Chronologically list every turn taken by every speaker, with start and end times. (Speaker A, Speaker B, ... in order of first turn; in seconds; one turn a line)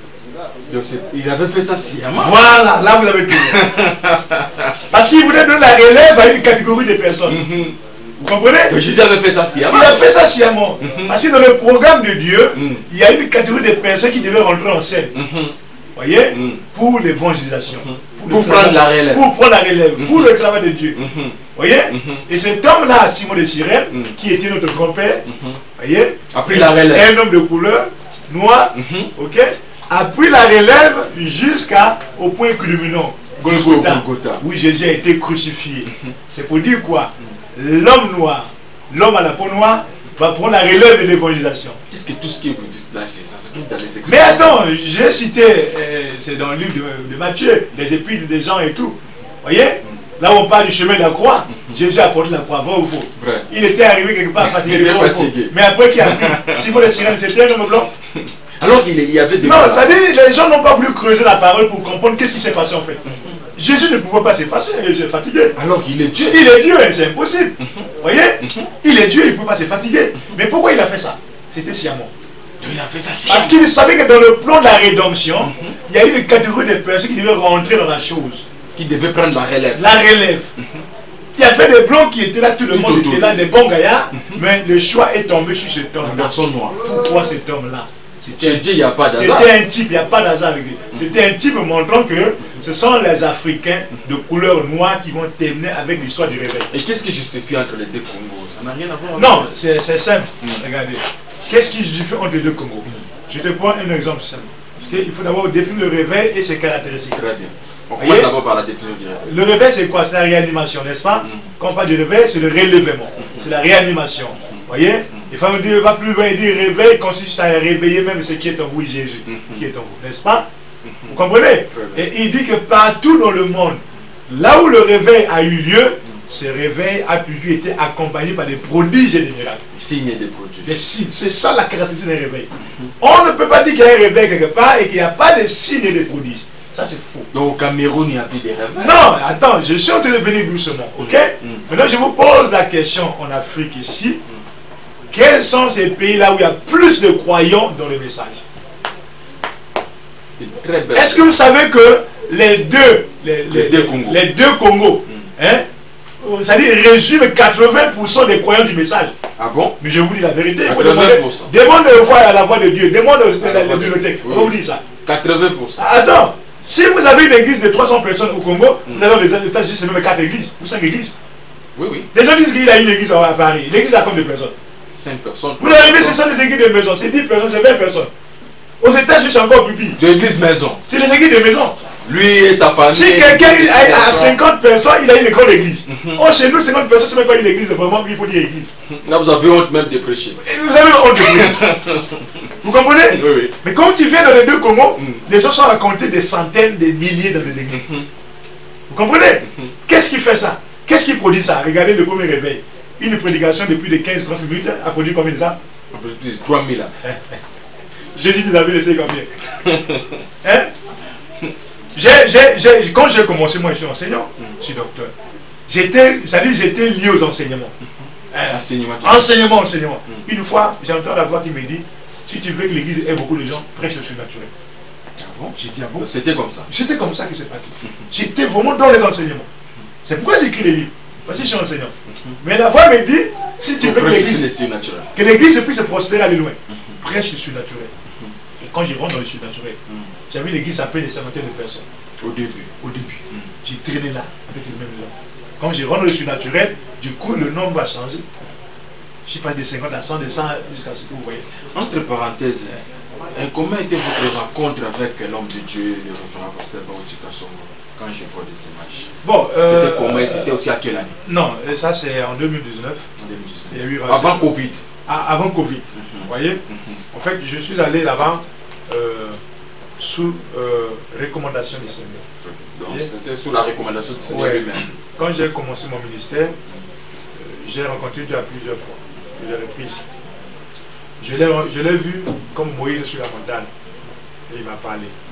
Speaker A: 0.7-2.4
Speaker B: 2.1-3.7
Speaker A: 3.3-4.8
Speaker B: 4.9-7.4
Speaker A: 7.2-7.8
Speaker B: 8.2-8.8
Speaker A: 8.7-10.1
Speaker B: 9.7-15.1
Speaker A: 10.8-11.2
Speaker A: 12.6-12.8
Speaker A: 15.1-15.6
Speaker B: 16.0-21.0
Speaker A: 16.3-16.6
Speaker A: 17.7-19.3
Speaker A: 20.0-20.3
Speaker A: 20.9-22.3
Speaker B: 21.5-25.2
Speaker A: 23.9-24.2
Speaker A: 25.3-25.6
Speaker B: 25.8-41.8
Speaker A: 26.3-27.1
Speaker A: 28.7-29.1
Speaker A: 33.4-34.4
Speaker A: 41.9-44.6
Speaker B: 44.0-57.9
Speaker A: 53.2-53.5
Speaker A: 54.4-57.1
Speaker A: 58.1-60.0
Speaker B: 59.4-63.0
Speaker A: 63.1-63.4
Speaker B: 63.5-65.6
Speaker A: 65.5-66.4
Speaker B: 66.2-72.1
Speaker A: 68.4-68.7
Speaker A: 72.6-73.6
Speaker B: 73.3-78.5
Speaker A: 75.4-75.8
Speaker A: 78.8-80.0
Speaker B: 79.7-80.5
Speaker A: 80.6-80.9
Speaker B: 81.4-96.7
Speaker A: 82.7-83.5
Speaker A: 84.1-84.4
Speaker A: 86.0-86.9
Speaker A: 88.4-89.5
Speaker A: 96.7-99.5
Speaker B: 99.1-107.2
Speaker A: 107.1-109.4
Speaker B: 108.0-108.3
Speaker B: 109.2-120.5
Speaker A: 111.2-111.5
Speaker A: 113.2-113.5
Speaker A: 119.3-119.7
Speaker A: 120.8-122.1
Speaker B: 121.1-129.6
Speaker A: 129.7-130.8
Speaker B: 130.6-132.5
Speaker A: 132.6-132.9
Speaker B: 133.0-137.3
Speaker A: 137.3-139.1
Speaker B: 138.8-144.2
Speaker A: 141.0-141.7
Speaker B: 145.1-148.4
Speaker A: 150.4-151.4
Speaker B: 150.9-155.7
Speaker A: 153.5-154.2
Speaker B: 156.2-159.1
Speaker A: 159.4-159.8
Speaker B: 159.8-164.8
Speaker A: 160.6-161.5
Speaker A: 163.4-165.9
Speaker B: 165.8-171.1
Speaker A: 168.9-169.1
Speaker A: 171.8-172.1
Speaker B: 172.1-174.5
Speaker A: 174.9-176.2
Speaker B: 175.6-178.1
Speaker B: 178.8-180.0
Speaker A: 180.0-180.8
Speaker B: 180.9-181.8
Speaker A: 182.0-184.4
Speaker B: 182.9-188.7
Speaker A: 185.9-186.2
Speaker A: 188.9-190.4
Speaker B: 190.4-191.7
Speaker A: 191.2-192.5
Speaker B: 192.6-197.9
Speaker A: 193.1-193.6
Speaker A: 195.0-195.3
Speaker A: 197.7-198.1
Speaker B: 198.9-205.6
Speaker A: 205.9-206.9
Speaker B: 207.0-207.4
Speaker B: 208.2-209.3
Speaker A: 209.6-210.2
Speaker B: 210.4-210.7
Speaker B: 211.9-215.1
Speaker B: 215.7-217.7
Speaker B: 218.3-224.5
Speaker A: 218.5-219.4
Speaker A: 225.2-226.7
Speaker B: 225.6-226.1
Speaker B: 226.7-229.5
Speaker B: 230.0-234.5
Speaker A: 232.1-232.4
Speaker A: 233.8-235.1
Speaker B: 235.1-237.9
Speaker B: 238.6-239.8
Speaker B: 240.3-241.8
Speaker A: 242.2-242.8
Speaker B: 242.8-248.2
Speaker B: 249.3-251.4
Speaker A: 251.5-259.1
Speaker B: 259.2-260.5
Speaker A: 259.6-261.2
Speaker B: 261.2-263.1
Speaker A: 263.2-264.8
Speaker B: 263.7-264.5
Speaker B: 265.1-266.6
Speaker A: 265.9-267.0
Speaker B: 267.1-269.4
Speaker B: 270.0-272.2
Speaker A: 272.4-274.9
Speaker B: 274.3-276.6
Speaker B: 277.4-280.1
Speaker B: 281.2-283.7
Speaker B: 284.5-285.1